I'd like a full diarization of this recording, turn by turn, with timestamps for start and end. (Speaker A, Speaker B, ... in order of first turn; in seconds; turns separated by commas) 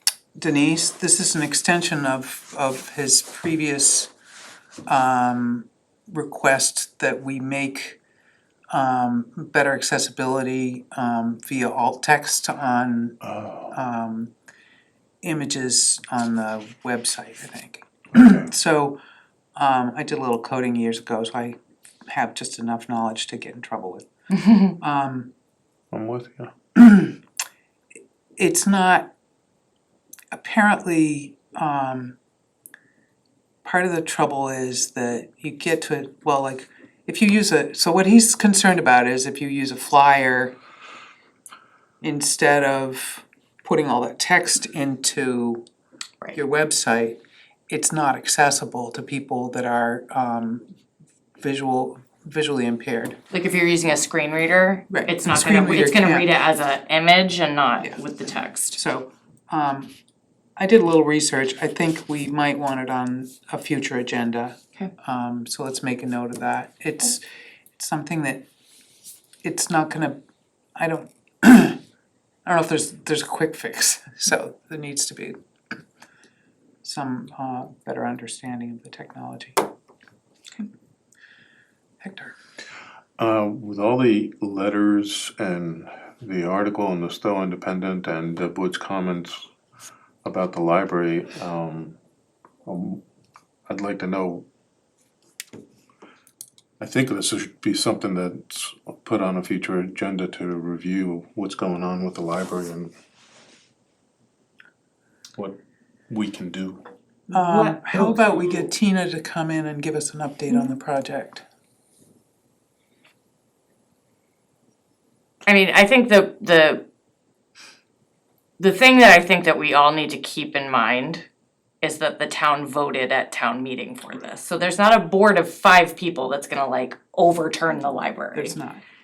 Speaker A: 0.4-4.1, Speaker A: 4.9-8.0, Speaker A: 8.7-13.2, Speaker B: 13.2-13.8, Speaker A: 13.7-14.3, Speaker A: 15.2-19.0, Speaker B: 18.1-18.5, Speaker A: 19.6-21.6, Speaker A: 22.1-24.1, Speaker C: 24.4-24.7, Speaker A: 24.7-25.3, Speaker B: 25.9-26.5, Speaker A: 26.8-27.2, Speaker A: 28.4-29.1, Speaker A: 30.3-32.2, Speaker A: 33.6-40.5, Speaker A: 42.0-45.6, Speaker A: 46.3-47.2, Speaker A: 47.7-50.6, Speaker A: 51.4-53.2, Speaker C: 53.3-58.8, Speaker A: 54.9-56.3, Speaker A: 58.7-59.9, Speaker A: 60.6-67.2, Speaker A: 67.8-68.4, Speaker A: 69.4-70.2, Speaker A: 70.8-71.8, Speaker A: 72.5-75.4, Speaker A: 76.8-79.6, Speaker A: 82.0-82.3, Speaker B: 83.2-89.5, Speaker B: 90.2-92.0, Speaker B: 92.7-93.0, Speaker B: 93.7-94.5, Speaker B: 96.8-102.9, Speaker B: 106.1-106.8, Speaker A: 107.3-111.5, Speaker C: 107.3-108.7, Speaker C: 115.5-116.8, Speaker C: 118.6-121.2, Speaker C: 121.8-128.6, Speaker A: 128.3-128.8